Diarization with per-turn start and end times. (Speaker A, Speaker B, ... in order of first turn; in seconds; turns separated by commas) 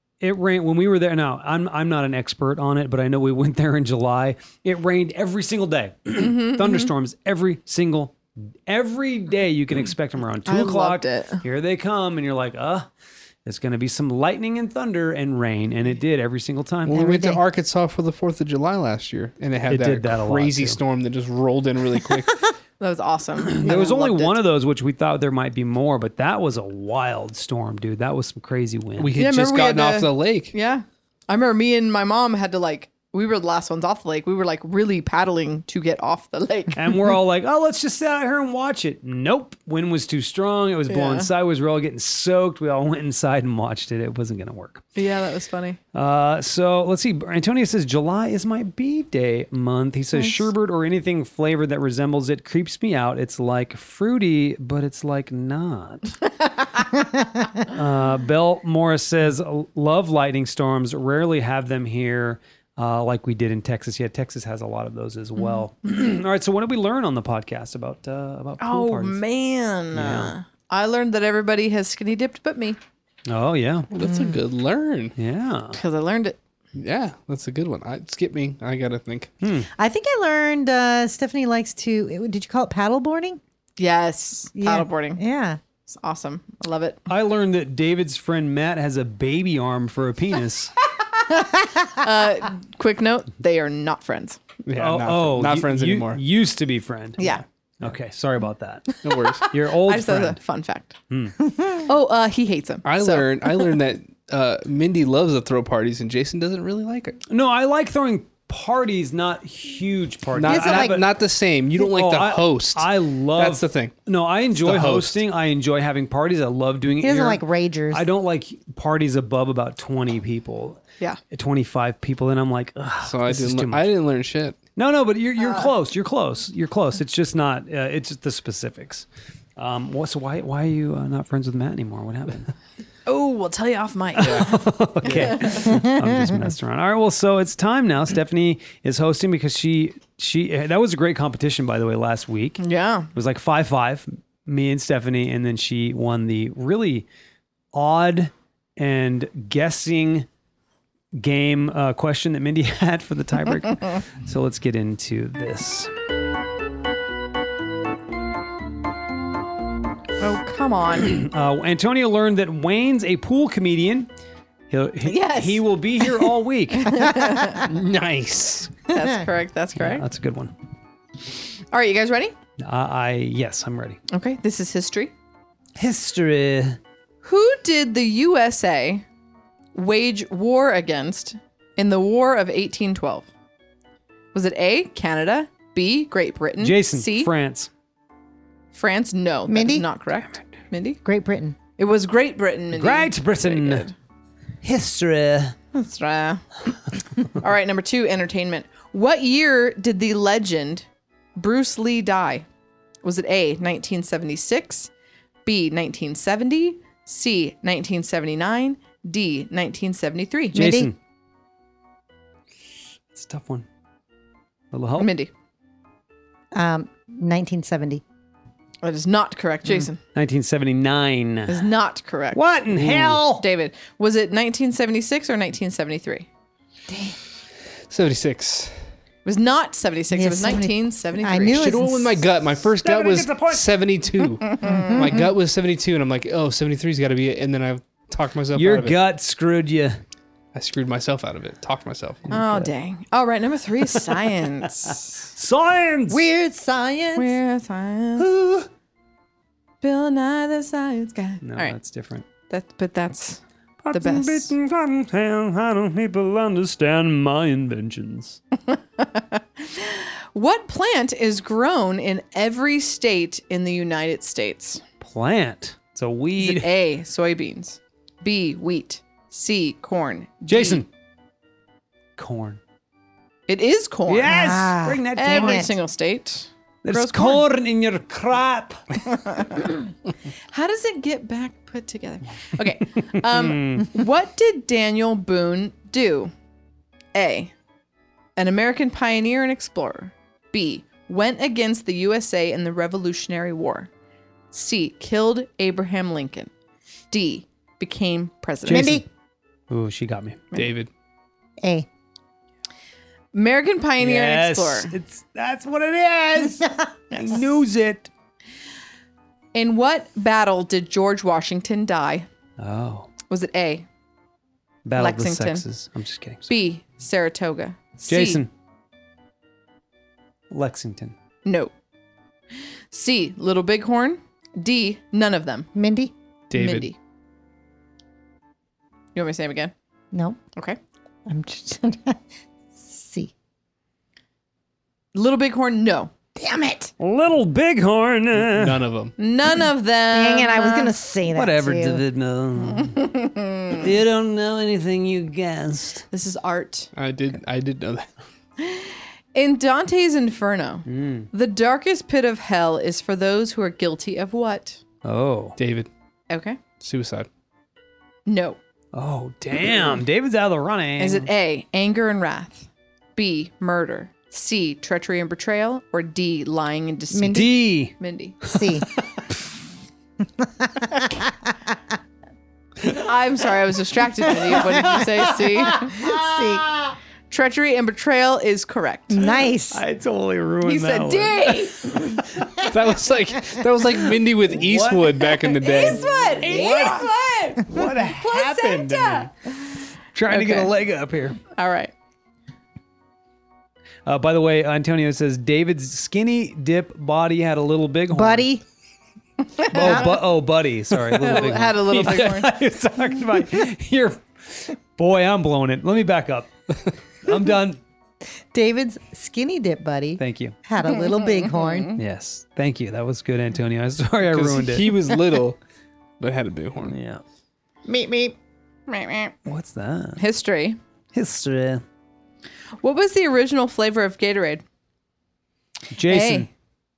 Speaker A: 0.2-12.9, Speaker B: 6.2-6.9, Speaker B: 10.5-11.4, Speaker A: 13.4-17.0, Speaker C: 16.9-22.5, Speaker D: 16.9-17.4, Speaker A: 19.7-20.8, Speaker B: 22.8-24.4, Speaker A: 23.4-29.2, Speaker C: 29.0-30.6, Speaker B: 29.2-36.9, Speaker A: 36.7-44.9, Speaker B: 40.9-41.3, Speaker B: 45.0-45.8, Speaker A: 45.9-56.1, Speaker B: 50.1-50.5, Speaker A: 57.7-69.2, Speaker B: 68.6-72.8, Speaker A: 69.9-70.3, Speaker A: 73.3-73.9, Speaker C: 73.9-75.2, Speaker A: 75.2-75.8, Speaker B: 75.7-76.4, Speaker C: 76.7-79.3, Speaker A: 79.4-79.7, Speaker D: 79.8-83.4, Speaker B: 83.8-85.2, Speaker D: 84.6-85.6, Speaker B: 85.9-87.1, Speaker A: 87.1-90.7, Speaker B: 92.0-94.4, Speaker C: 94.7-96.2, Speaker A: 94.8-100.4, Speaker B: 97.2-97.4, Speaker B: 98.9-101.0, Speaker C: 99.0-99.5, Speaker A: 101.1-101.3, Speaker B: 101.9-103.8, Speaker C: 102.8-107.2, Speaker A: 107.3-111.1, Speaker C: 110.3-113.9, Speaker D: 110.5-111.0, Speaker A: 111.8-123.9, Speaker C: 114.6-115.2, Speaker D: 117.0-118.0, Speaker C: 123.0-124.6, Speaker A: 124.8-132.5, Speaker B: 125.4-125.7, Speaker B: 133.1-135.8, Speaker A: 134.2-142.6, Speaker C: 134.2-134.5, Speaker C: 135.1-135.4, Speaker D: 135.7-136.4, Speaker B: 142.6-143.1, Speaker A: 143.1-147.1, Speaker A: 147.7-150.3, Speaker A: 151.1-155.9, Speaker B: 160.2-161.2, Speaker A: 161.0-164.1, Speaker A: 164.7-167.1, Speaker B: 165.1-167.7, Speaker C: 167.5-168.7, Speaker B: 168.9-170.1, Speaker A: 169.8-170.5, Speaker B: 171.7-172.3, Speaker A: 172.6-174.0, Speaker B: 174.1-175.1, Speaker A: 175.8-176.8, Speaker B: 177.2-179.1, Speaker B: 179.8-183.3, Speaker B: 184.3-187.3, Speaker A: 186.6-187.7, Speaker B: 188.7-191.0, Speaker D: 189.5-189.9, Speaker A: 190.3-190.6, Speaker D: 191.0-191.6, Speaker B: 191.8-193.9, Speaker A: 192.7-193.9, Speaker A: 194.6-195.6, Speaker B: 195.7-196.5, Speaker B: 197.2-200.9, Speaker B: 201.4-202.5, Speaker B: 203.0-204.9, Speaker B: 205.4-210.7, Speaker D: 210.5-210.9, Speaker A: 210.5-211.0, Speaker A: 213.1-213.7, Speaker A: 214.7-215.1, Speaker B: 215.0-215.3, Speaker D: 216.5-218.0, Speaker B: 218.8-220.0, Speaker A: 219.7-221.7, Speaker B: 221.5-222.4, Speaker A: 222.3-223.5, Speaker C: 222.7-223.2, Speaker B: 223.2-226.3, Speaker D: 226.9-227.2, Speaker C: 227.9-228.8, Speaker B: 229.2-231.7, Speaker D: 230.1-232.2, Speaker C: 231.5-239.0, Speaker A: 232.8-233.7, Speaker B: 234.5-235.0, Speaker D: 234.6-235.2, Speaker A: 238.5-240.0, Speaker C: 240.5-242.3, Speaker A: 242.3-242.7, Speaker B: 242.3-245.3, Speaker A: 243.8-246.3, Speaker D: 246.1-247.4, Speaker B: 247.2-248.3, Speaker D: 248.2-248.7, Speaker B: 249.8-251.8, Speaker A: 251.4-252.3, Speaker B: 252.5-253.4, Speaker A: 253.8-258.4, Speaker B: 253.9-254.6, Speaker B: 258.7-264.8, Speaker A: 265.0-266.7, Speaker B: 266.4-270.9, Speaker A: 270.5-270.9, Speaker A: 272.2-272.6, Speaker B: 273.5-274.5, Speaker A: 274.1-275.7, Speaker D: 274.3-275.7, Speaker B: 275.1-277.4, Speaker A: 276.8-278.8, Speaker B: 279.1-279.7, Speaker B: 280.5-286.3, Speaker A: 283.1-283.9, Speaker B: 287.1-287.5, Speaker B: 288.4-293.9, Speaker B: 294.5-296.5, Speaker B: 297.1-299.0, Speaker D: 298.7-299.1, Speaker A: 298.7-299.0, Speaker A: 299.7-300.4, Speaker C: 300.5-300.9, Speaker D: 301.6-301.9, Speaker B: 303.3-304.9, Speaker A: 304.0-308.1, Speaker D: 306.6-307.2, Speaker B: 309.5-312.3, Speaker A: 312.6-313.1, Speaker B: 313.3-313.9, Speaker A: 314.9-316.5, Speaker B: 315.0-315.6, Speaker B: 316.5-318.4, Speaker A: 318.1-318.5, Speaker A: 320.5-321.1, Speaker B: 321.4-321.7, Speaker B: 322.9-325.7, Speaker D: 325.8-326.1, Speaker C: 326.5-326.9, Speaker B: 326.5-327.0, Speaker B: 329.1-329.7, Speaker D: 330.1-330.4, Speaker D: 331.3-332.2, Speaker D: 332.8-333.3, Speaker B: 335.1-336.1, Speaker D: 336.4-336.9, Speaker A: 337.0-338.8, Speaker C: 338.4-339.1, Speaker B: 339.2-340.9, Speaker D: 340.1-342.0, Speaker A: 341.3-343.1, Speaker B: 342.7-343.8, Speaker A: 343.7-346.1, Speaker B: 346.1-346.9, Speaker C: 346.9-348.1, Speaker B: 348.6-354.8, Speaker A: 350.9-351.3, Speaker A: 355.0-355.6, Speaker C: 355.6-355.9, Speaker B: 356.3-356.6, Speaker C: 356.8-357.3, Speaker B: 358.3-358.6, Speaker A: 358.9-361.3, Speaker B: 361.0-368.4, Speaker D: 367.1-367.5, Speaker A: 367.3-369.4, Speaker D: 368.5-368.9, Speaker D: 370.4-371.3, Speaker B: 372.9-375.9, Speaker D: 374.5-375.0, Speaker D: 375.7-376.7, Speaker A: 375.8-376.9, Speaker B: 377.3-379.2, Speaker D: 379.1-379.8, Speaker A: 379.7-382.7, Speaker B: 380.6-382.1, Speaker C: 382.6-386.1, Speaker A: 384.0-389.3, Speaker B: 385.6-390.7, Speaker A: 390.1-391.4, Speaker B: 391.6-391.9, Speaker A: 394.1-398.5, Speaker D: 398.1-398.6, Speaker B: 399.6-400.1, Speaker A: 399.7-406.5, Speaker D: 399.7-400.1, Speaker B: 401.2-402.5, Speaker A: 407.2-407.8, Speaker D: 408.5-412.0, Speaker A: 410.2-410.6, Speaker B: 411.5-411.9, Speaker A: 412.0-415.0, Speaker C: 414.3-415.6, Speaker C: 416.2-417.0, Speaker A: 416.9-417.2, Speaker D: 417.9-418.4, Speaker B: 418.9-419.4, Speaker A: 419.4-420.2, Speaker B: 420.2-420.8, Speaker A: 421.1-421.8, Speaker B: 422.8-424.6, Speaker A: 425.9-426.5, Speaker B: 426.1-426.5